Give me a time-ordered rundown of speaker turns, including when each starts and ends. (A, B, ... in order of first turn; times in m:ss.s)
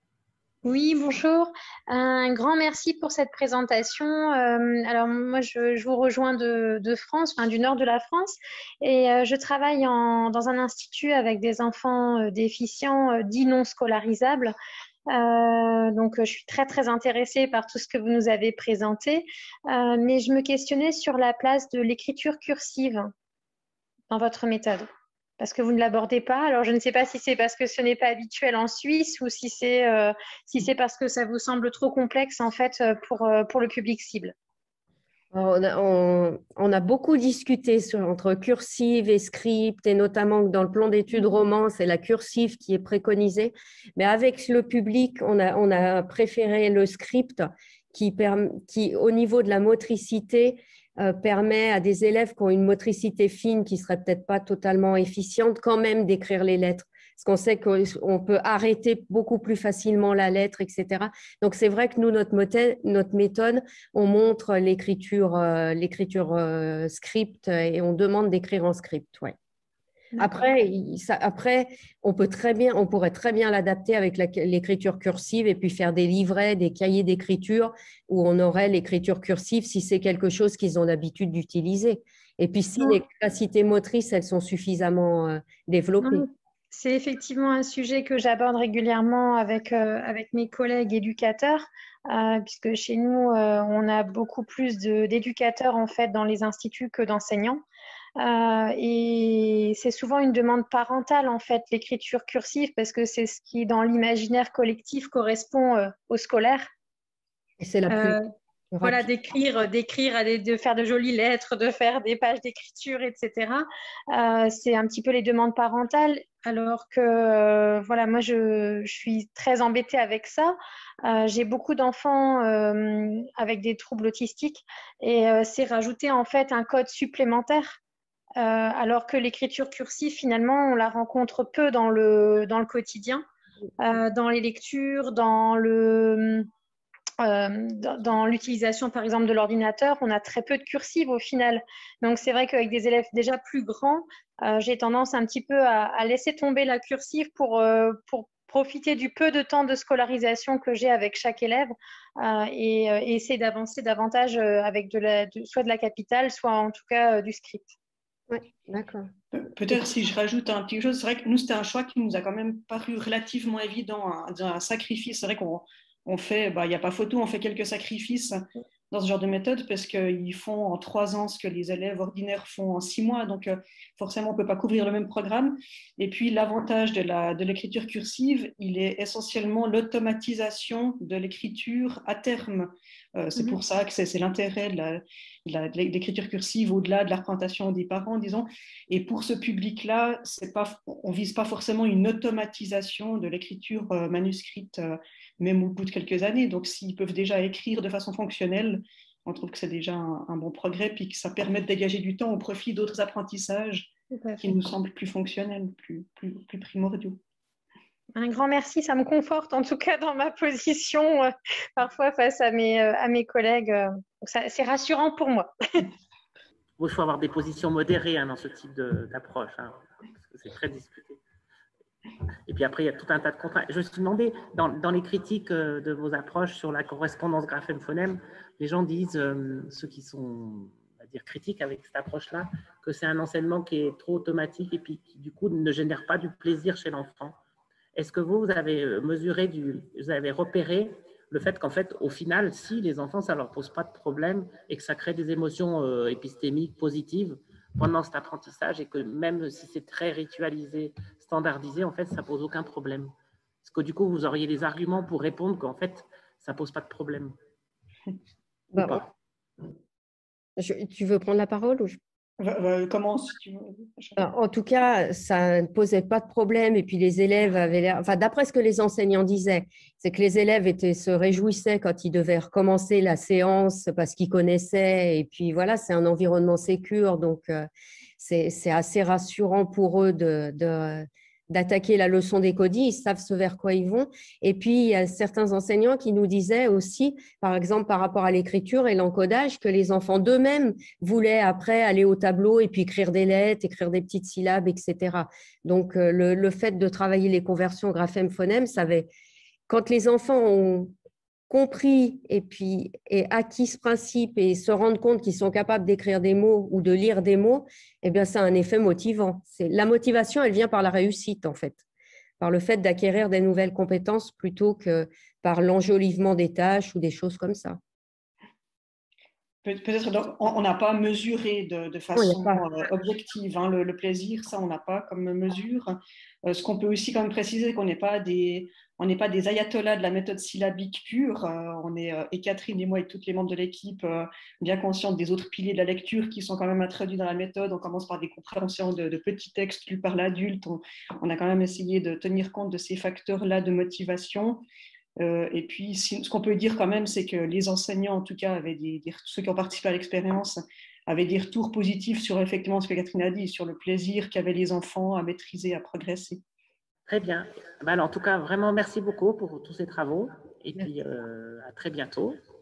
0:00.6-0:14.5 A
0:15.1-0:23.1 A
0:24.1-0:24.9 A
0:25.4-0:34.3 A
0:35.3-1:09.3 B
1:10.2-1:26.2 B
1:26.0-1:37.6 A
1:38.2-1:46.7 A
1:47.6-1:48.2 B
1:47.9-1:48.2 A
1:48.7-1:49.1 B
1:48.8-2:07.8 A
2:08.4-2:13.2 A
2:13.8-2:16.5 A
2:17.2-2:37.7 A
2:38.3-2:39.1 B
2:39.3-3:27.2 C
3:24.1-3:24.4 A
3:28.2-3:35.9 A
3:36.8-3:41.2 D
3:42.5-3:57.4 D
3:57.9-4:17.4 D
4:18.7-4:19.0 B
4:20.6-4:22.0 B
4:22.4-4:24.2 C
4:24.2-4:37.7 B
4:38.2-4:59.1 B
4:59.7-5:00.9 B
5:01.5-5:11.8 B
5:12.4-5:17.8 B
5:19.6-5:44.6 C
5:22.1-5:22.6 B
5:45.2-5:56.4 C
5:57.1-6:02.4 D